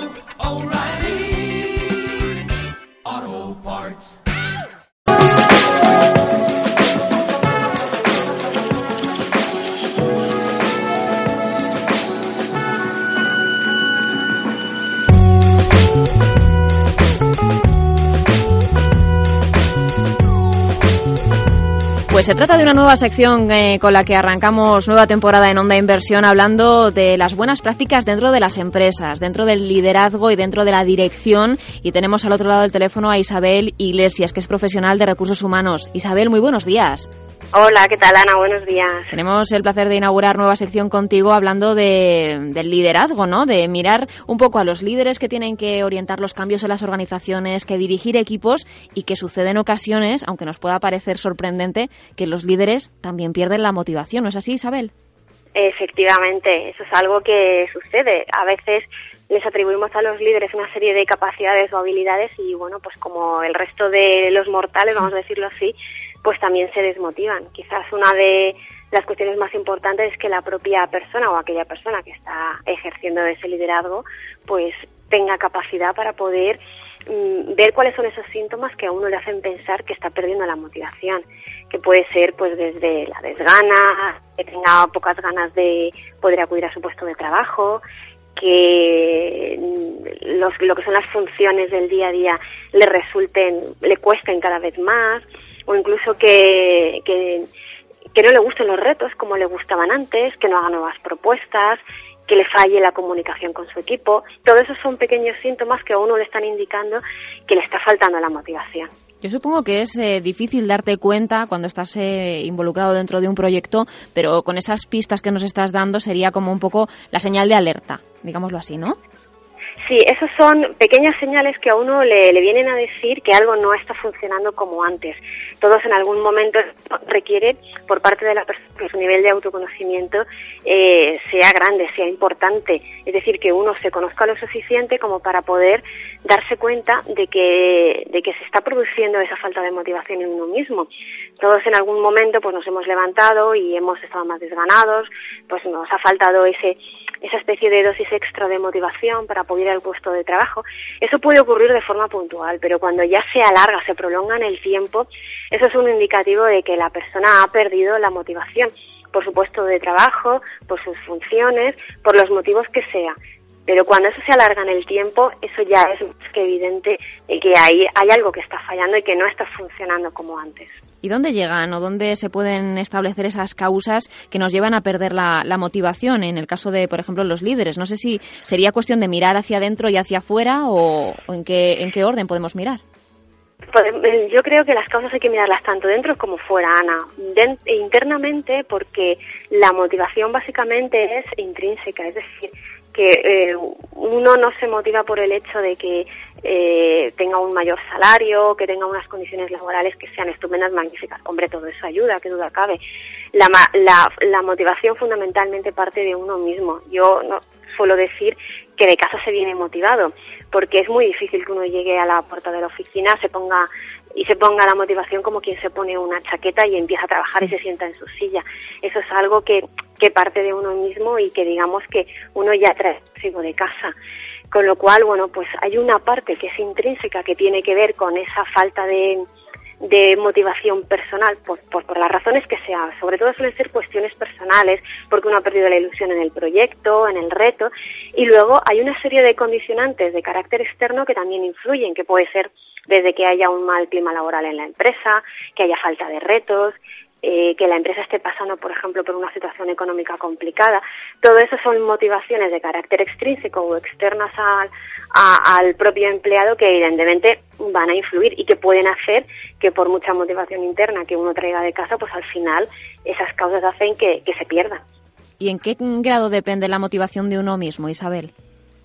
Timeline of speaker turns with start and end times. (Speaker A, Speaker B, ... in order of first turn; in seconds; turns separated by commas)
Speaker A: 0.5-1.5, Speaker A: 3.1-4.0, Speaker B: 22.1-37.1, Speaker C: 37.5-39.2, Speaker B: 39.1-54.9, Speaker C: 55.5-87.8, Speaker C: 88.3-97.5, Speaker C: 98.1-108.9, Speaker B: 109.2-119.0, Speaker C: 119.8-140.9, Speaker C: 141.4-163.2, Speaker C: 163.7-170.8, Speaker B: 171.0-182.8, Speaker C: 183.7-202.8, Speaker C: 203.3-223.9, Speaker C: 224.5-229.2, Speaker C: 229.8-264.8, Speaker B: 265.4-268.3